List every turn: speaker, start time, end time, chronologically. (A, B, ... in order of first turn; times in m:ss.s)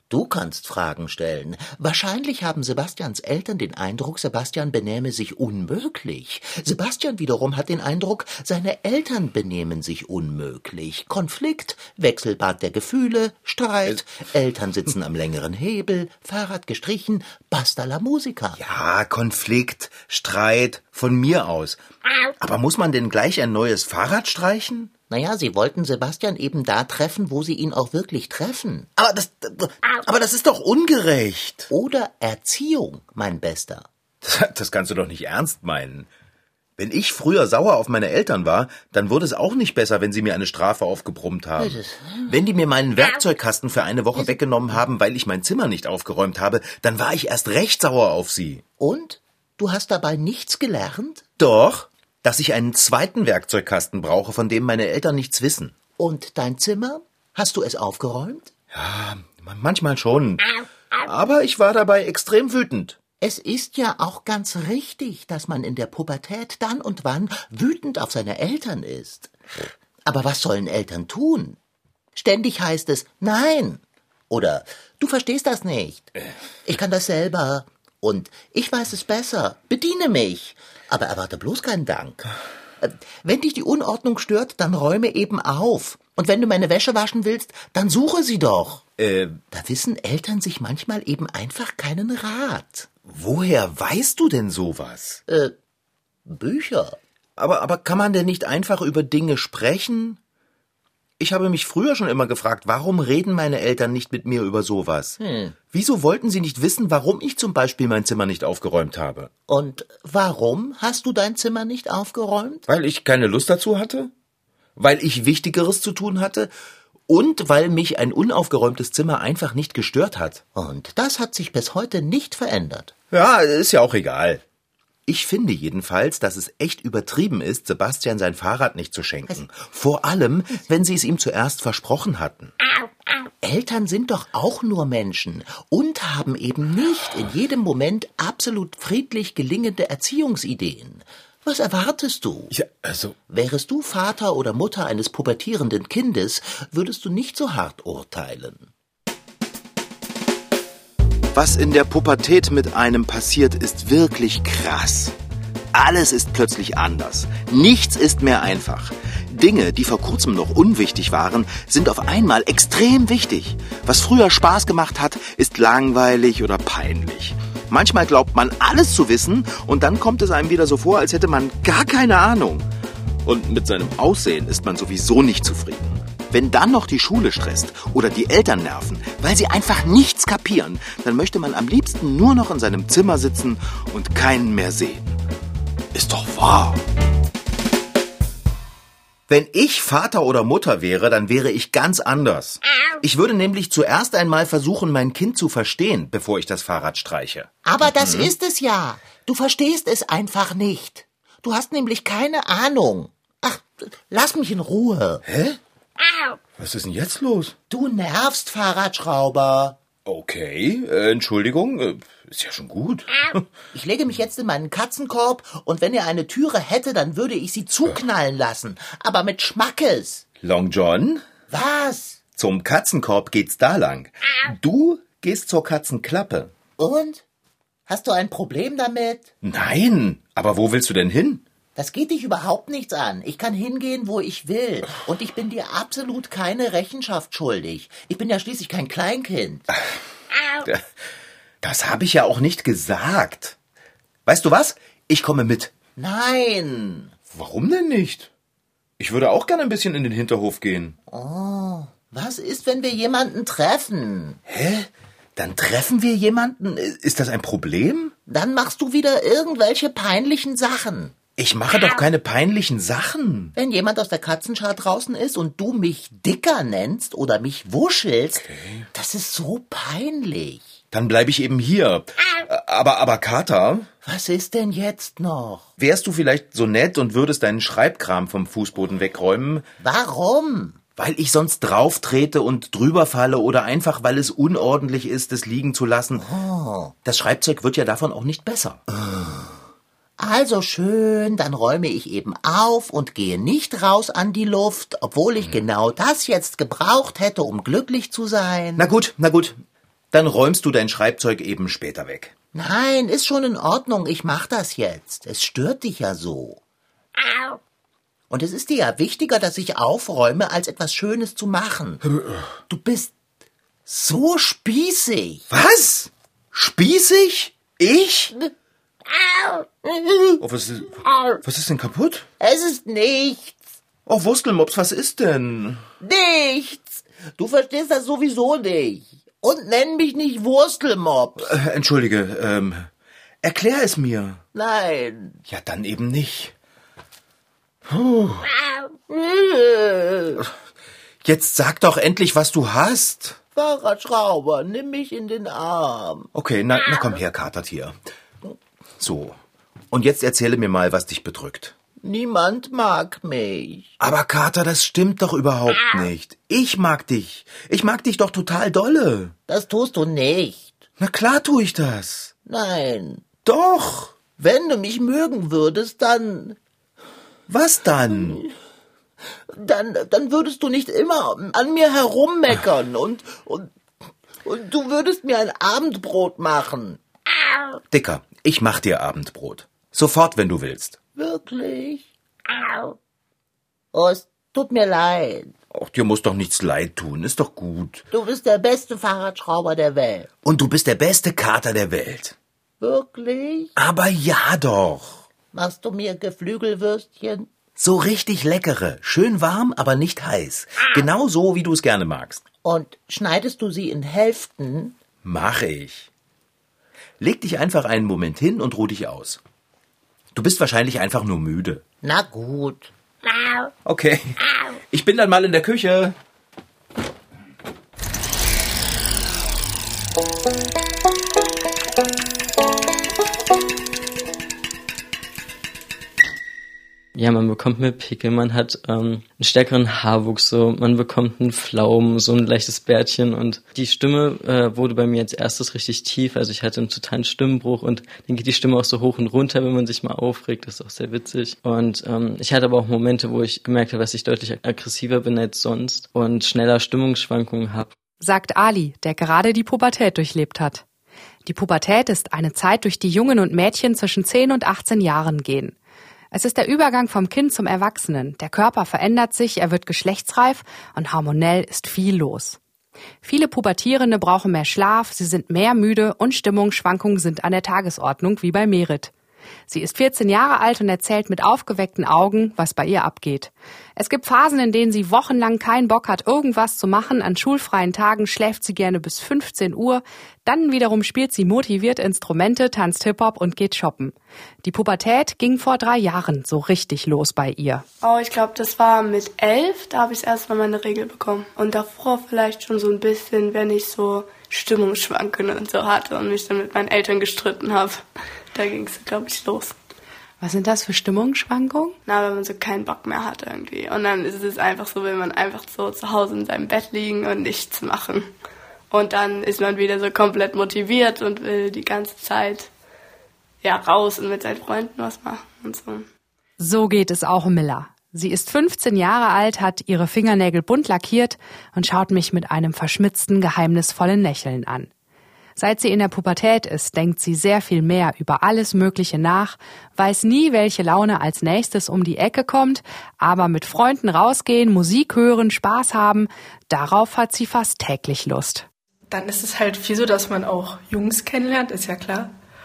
0:00.1-0:18.6 A
0:18.6-0:21.8 B
0:22.4-0:24.9 B
0:25.1-0:28.9 A
0:29.0-0:31.7 B
0:31.7-0:33.9 A
0:34.2-0:36.1 B
0:36.8-0:48.6 B
0:41.6-0:42.4 A
0:44.2-0:44.8 A
0:48.8-0:51.3 A
0:51.4-0:55.7 B
0:56.0-0:58.5 A
0:58.7-1:00.4 B
1:01.0-1:03.0 B
1:03.2-1:09.3 A
1:10.0-1:11.6 A
1:12.2-1:16.1 A
1:16.6-1:28.8 A
1:29.0-1:29.4 B
1:29.5-1:32.9 A
1:33.1-1:35.2 B
1:35.3-1:35.6 A
1:36.3-1:37.0 A
1:37.4-1:40.2 B
1:41.2-1:45.2 B
1:45.2-1:45.6 A
1:45.7-1:49.3 B
1:49.5-1:52.7 A
1:52.7-1:54.1 B
1:54.8-1:56.5 B
1:57.1-2:00.4 B
2:00.6-2:02.9 A
2:03.1-2:04.4 B
2:05.1-2:12.5 B
2:13.4-2:22.5 A
2:22.5-2:23.2 B
2:23.3-2:28.7 A
2:31.3-2:35.2 B
2:35.7-2:52.7 B
2:53.2-3:05.2 B
3:05.9-3:06.8 B
3:09.3-3:18.3 B
3:17.6-3:25.2 A
3:25.2-3:25.6 B
3:26.6-3:27.6 B
3:27.7-3:29.8 A
3:30.0-3:33.5 B
3:33.7-3:40.2 A
3:40.4-3:41.2 B
3:41.5-3:42.2 A
3:42.4-3:46.5 B
3:46.8-3:47.2 A
3:47.9-3:49.3 A
3:49.4-3:51.4 B
3:51.8-3:59.7 A
4:01.6-4:03.6 B
4:04.2-4:05.7 B
4:06.0-4:07.1 A
4:07.3-4:08.3 B
4:09.0-4:10.9 B
4:11.1-4:14.4 A
4:14.5-4:18.1 B
4:18.3-4:21.2 A
4:21.4-4:23.5 B
4:23.6-4:30.6 A
4:28.4-4:28.9 B
4:30.9-4:33.9 B
4:34.0-4:35.7 A
4:35.8-4:39.7 B
4:39.8-4:40.8 A
4:41.0-4:46.2 B
4:46.2-4:47.0 A
4:47.0-4:48.8 B
4:48.9-4:49.6 A
4:50.2-4:58.9 A
4:58.8-4:59.6 B
5:00.1-5:02.3 B
5:02.5-5:06.6 A
5:08.3-5:12.0 A
5:12.7-5:13.1 A
5:13.9-5:15.5 A
5:15.5-5:18.3 B
5:19.2-5:20.4 A
5:20.4-5:22.3 B
5:22.4-5:23.6 A
5:24.1-5:25.8 B
5:26.0-5:31.5 A
5:31.4-5:32.9 B
5:33.4-5:34.4 B
5:34.5-5:35.4 A
5:35.5-5:36.5 B
5:37.9-5:38.5 B
5:39.1-5:40.4 A
5:41.2-5:43.4 B
5:43.5-5:46.3 A
5:46.3-5:47.9 B
5:49.0-5:49.4 B
5:49.9-5:51.8 B
5:52.0-5:53.9 A
5:54.0-5:59.3 B
5:59.5-6:00.8 A
6:01.0-6:02.3 B
6:02.5-6:03.2 A
6:03.4-6:04.2 B
6:04.4-6:06.6 A
6:07.5-6:08.4 B
6:09.5-6:13.7 A
6:14.4-6:17.0 A
6:17.9-6:21.0 B
6:21.2-6:22.1 A
6:23.9-6:25.5 A
6:25.7-6:28.0 B
6:28.1-6:30.3 A
6:30.4-6:32.4 B
6:32.8-6:33.7 A
6:33.8-6:35.2 B
6:35.5-6:37.5 A
6:37.8-6:42.4 B
6:42.6-6:45.0 A
6:45.2-6:46.1 B
6:47.2-6:49.4 B
6:50.3-6:51.8 B
6:52.0-6:52.9 A
6:53.8-6:54.4 B
6:54.9-6:56.1 B
7:07.1-7:27.9 C
7:28.2-7:30.8 D
7:31.5-7:35.8 D
7:36.3-7:42.6 D
7:43.2-7:49.1 D
7:49.7-8:07.8 D
8:08.0-8:19.8 E
8:20.4-8:22.0 D
8:22.1-8:28.3 E
8:28.9-8:32.7 E
8:33.6-8:36.1 E
8:36.6-8:44.9 D
8:45.6-8:58.6 D
8:59.1-9:02.3 F